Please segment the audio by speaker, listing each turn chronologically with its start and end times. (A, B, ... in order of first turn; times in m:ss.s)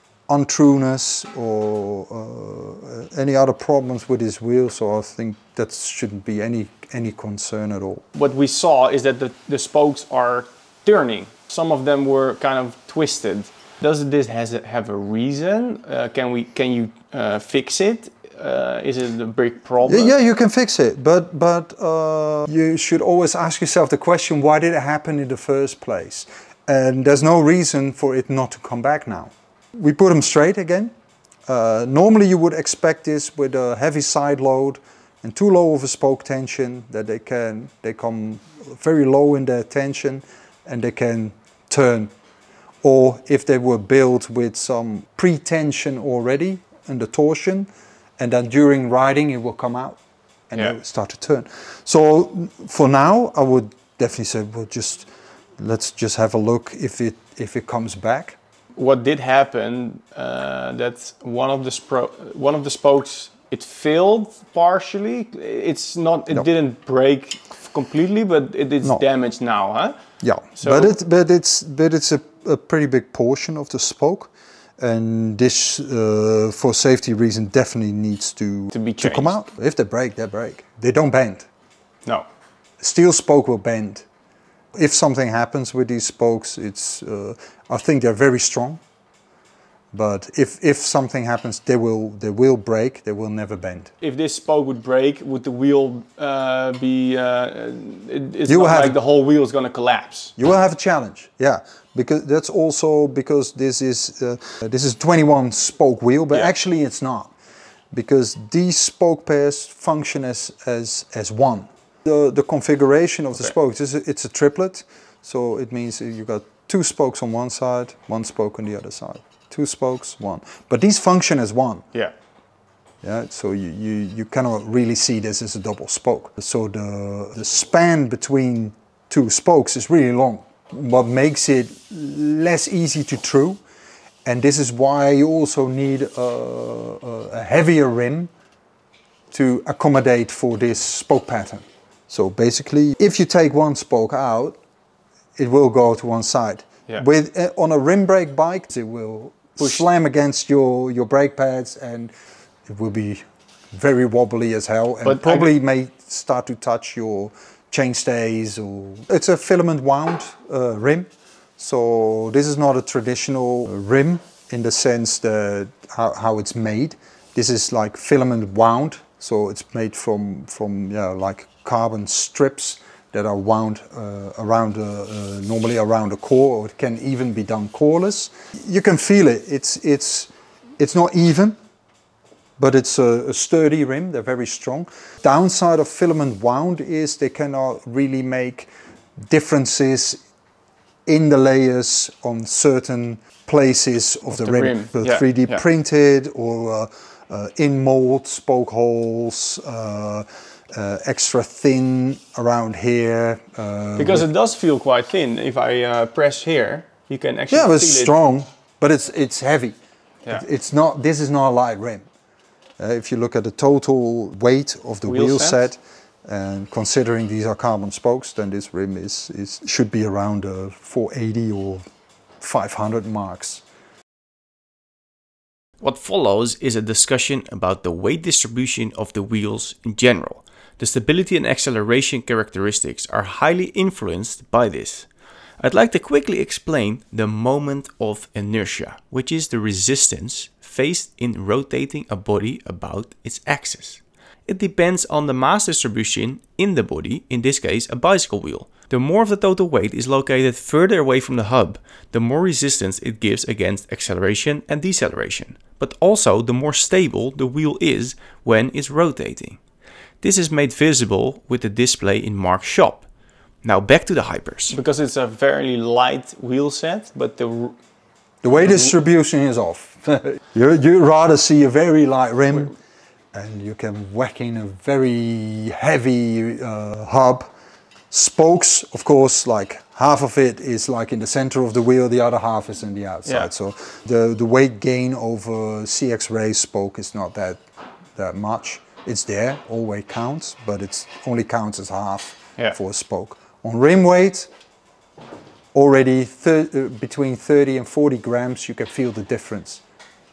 0:00.3-0:08.0 A
0:08.1-0:20.1 B
0:19.8-0:30.9 A
0:31.5-0:42.1 A
0:42.8-0:50.0 A
0:50.5-0:58.4 A
0:58.8-1:10.0 B
1:10.2-1:21.5 A
1:10.6-1:10.9 B
1:18.7-1:19.4 B
1:22.8-1:24.1 A
1:24.7-1:28.8 A
1:29.9-1:33.9 A
1:34.0-1:40.4 B
1:38.5-1:39.0 A
1:40.4-1:47.3 A
1:47.9-2:01.8 A
2:03.0-2:13.6 A
2:14.2-2:18.3 A
2:19.3-2:24.6 A
2:25.4-2:32.1 A
2:32.7-3:01.6 A
2:35.0-2:35.5 B
3:02.6-3:10.2 A
3:11.1-3:24.3 A
3:14.3-3:15.6 B
3:24.0-3:28.1 B
3:27.5-3:29.8 A
3:30.3-3:32.1 A
3:32.8-3:41.8 A
3:35.1-3:35.6 B
3:42.4-3:43.6 A
3:45.8-3:55.1 C
3:55.6-4:19.6 C
4:20.2-4:23.1 C
4:23.6-4:24.8 C
4:24.7-4:27.8 B
4:28.4-4:32.8 A
4:28.6-4:28.9 B
4:33.3-4:37.5 A
4:38.1-4:47.6 A
4:48.2-4:54.5 A
4:55.7-4:59.8 A